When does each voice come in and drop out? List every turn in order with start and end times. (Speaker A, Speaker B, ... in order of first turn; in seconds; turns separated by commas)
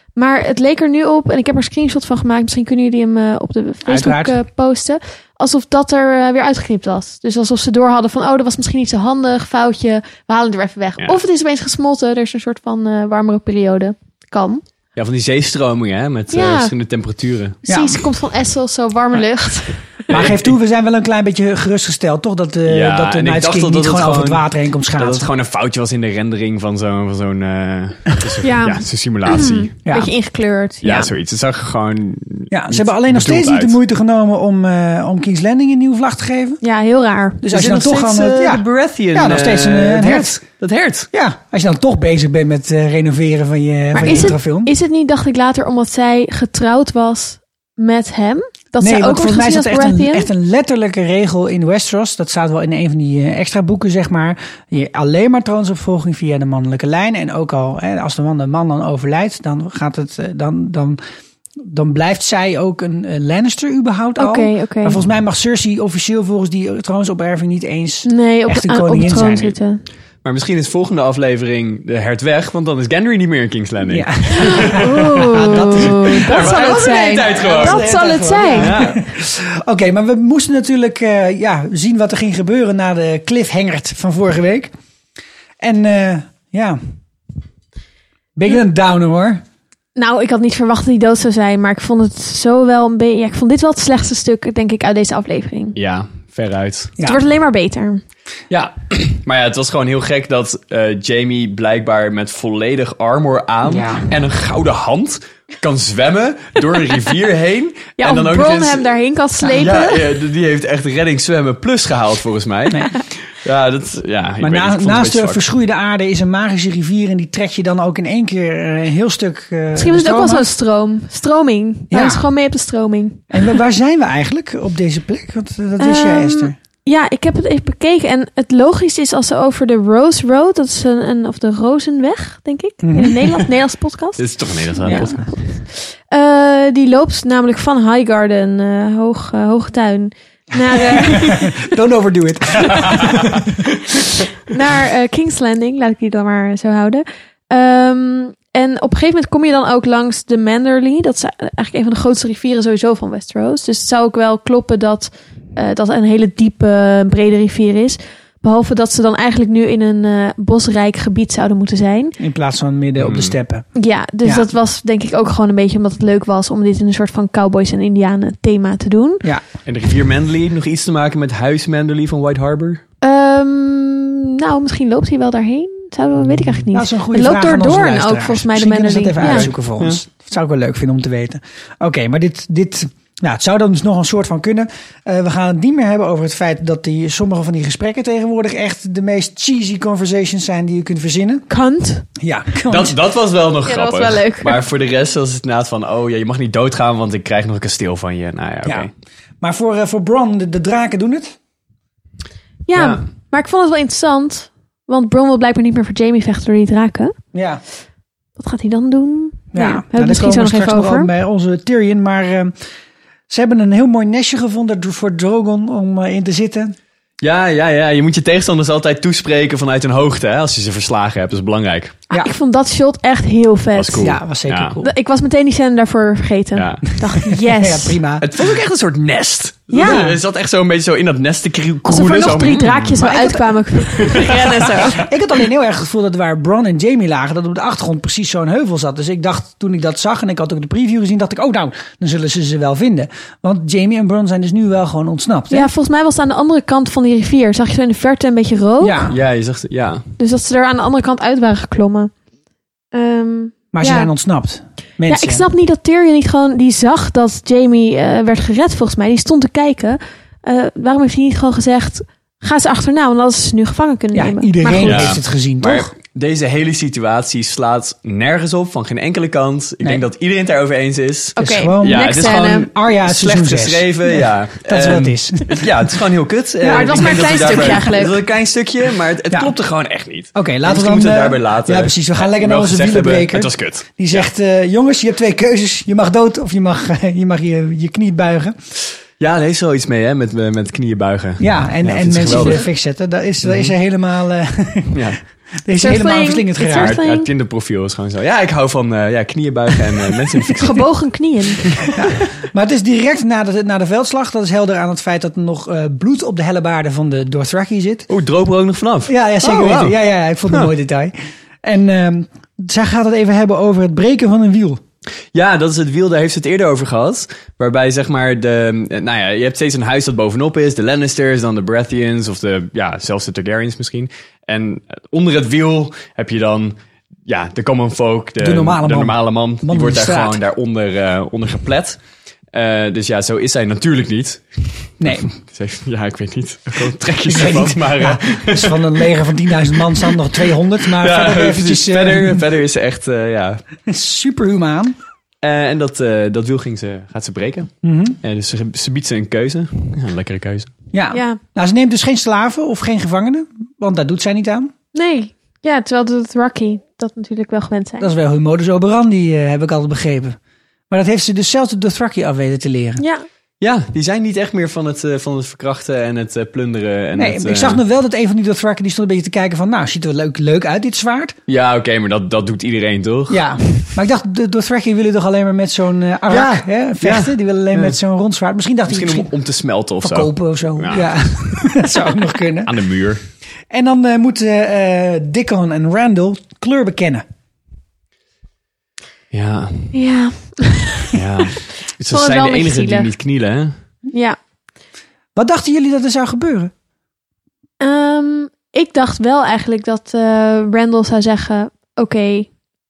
Speaker A: 0.2-14.6, Speaker B: 3.9-4.4, Speaker C: 15.0-17.6, Speaker A: 16.3-16.7, Speaker A: 17.6-19.8, Speaker B: 17.7-18.0, Speaker C: 20.1-20.5, Speaker B: 20.1-25.3, Speaker C: 22.7-24.4, Speaker C: 25.0-29.7, Speaker A: 28.4-31.1, Speaker C: 30.8-33.8, Speaker B: 32.5-36.6, Speaker A: 36.6-37.4, Speaker B: 37.4-40.4, Speaker C: 37.5-41.1, Speaker B: 41.1-44.7, Speaker C: 43.9-44.3, Speaker A: 44.0-50.3, Speaker B: 48.8-61.0, Speaker B: 61.6-69.5, Speaker A: 64.2-65.0, Speaker A: 68.1-69.8, Speaker C: 70.2-77.8, Speaker B: 73.9-84.7, Speaker A: 74.4-78.8, Speaker C: 78.5-79.0, Speaker B: 85.6-86.8, Speaker B: 88.4-89.4, Speaker A: 90.0-95.8, Speaker C: 95.8-96.9, Speaker A: 97.0-98.0, Speaker C: 98.5-108.9, Speaker B: 103.6-104.1, Speaker A: 108.0-110.0, Speaker C: 109.4-115.5, Speaker B: 114.4-120.5, Speaker A: 119.8-123.2, Speaker B: 121.9-122.2, Speaker B: 123.3-126.6, Speaker A: 125.8-134.2, Speaker B: 132.8-133.2, Speaker C: 134.2-135.6, Speaker B: 134.8-135.2, Speaker A: 136.1-141.6, Speaker B: 140.8-143.4, Speaker A: 144.5-162.2, Speaker B: 162.2-163.7, Speaker C: 163.0-163.4, Speaker A: 163.8-169.2, Speaker B: 164.2-164.5, Speaker C: 169.7-172.8, Speaker A: 173.0-179.5, Speaker B: 176.7-191.5, Speaker C: 179.2-180.0, Speaker A: 191.5-192.1, Speaker B: 192.2-192.9, Speaker C: 192.7-198.9, Speaker A: 193.7-194.6, Speaker B: 198.6-198.9, Speaker B: 199.4-201.4, Speaker A: 202.7-207.2, Speaker C: 202.8-203.0, Speaker B: 207.3-207.6, Speaker A: 208.4-211.1, Speaker B: 209.5-212.5, Speaker B: 213.3-216.8, Speaker C: 217.2-222.0, Speaker A: 222.1-224.1, Speaker C: 223.8-224.8, Speaker B: 224.0-224.9, Speaker A: 224.8-228.0, Speaker C: 226.6-226.8, Speaker B: 227.3-228.3, Speaker C: 228.2-232.9, Speaker A: 229.7-230.0, Speaker B: 229.8-230.2, Speaker A: 231.9-235.0, Speaker B: 232.8-234.4, Speaker C: 234.1-234.9, Speaker B: 234.9-245.7, Speaker A: 245.5-249.0, Speaker B: 248.8-249.2, Speaker C: 249.1-250.1, Speaker A: 250.2-252.1, Speaker A: 252.9-254.1, Speaker B: 253.7-255.4, Speaker A: 255.1-265.1, Speaker B: 264.1-265.9, Speaker C: 264.8-284.3, Speaker A: 271.4-272.7, Speaker B: 271.4-275.7, Speaker B: 276.6-277.7, Speaker A: 276.7-278.1, Speaker B: 280.4-288.6, Speaker C: 289.2-292.7, Speaker B: 291.4-295.0, Speaker C: 293.4-293.7, Speaker C: 294.9-295.2, Speaker B: 295.6-297.0, Speaker A: 295.8-297.3, Speaker C: 296.7-300.7, Speaker A: 300.6-301.7, Speaker B: 301.9-308.1, Speaker C: 308.1-310.0, Speaker B: 309.1-314.8, Speaker C: 315.3-332.0, Speaker B: 328.4-330.4, Speaker C: 332.5-338.9, Speaker B: 335.0-335.3, Speaker B: 337.3-342.4, Speaker C: 341.0-343.6, Speaker B: 343.9-345.0, Speaker C: 345.4-350.7, Speaker B: 347.8-348.2, Speaker B: 350.9-354.7, Speaker A: 351.1-351.4, Speaker A: 354.9-358.1, Speaker B: 358.0-360.4, Speaker B: 360.9-363.0, Speaker A: 363.0-363.3, Speaker C: 363.6-367.8, Speaker B: 367.1-371.4, Speaker C: 371.5-373.5, Speaker B: 373.3-379.3, Speaker C: 376.3-378.0, Speaker C: 378.9-381.7, Speaker B: 380.0-382.7, Speaker C: 382.7-383.2, Speaker B: 383.7-387.2, Speaker C: 389.3-390.0, Speaker A: 389.9-391.1, Speaker C: 391.1-393.8, Speaker A: 392.1-393.1, Speaker A: 394.1-394.4, Speaker B: 395.4-396.7, Speaker A: 397.8-402.5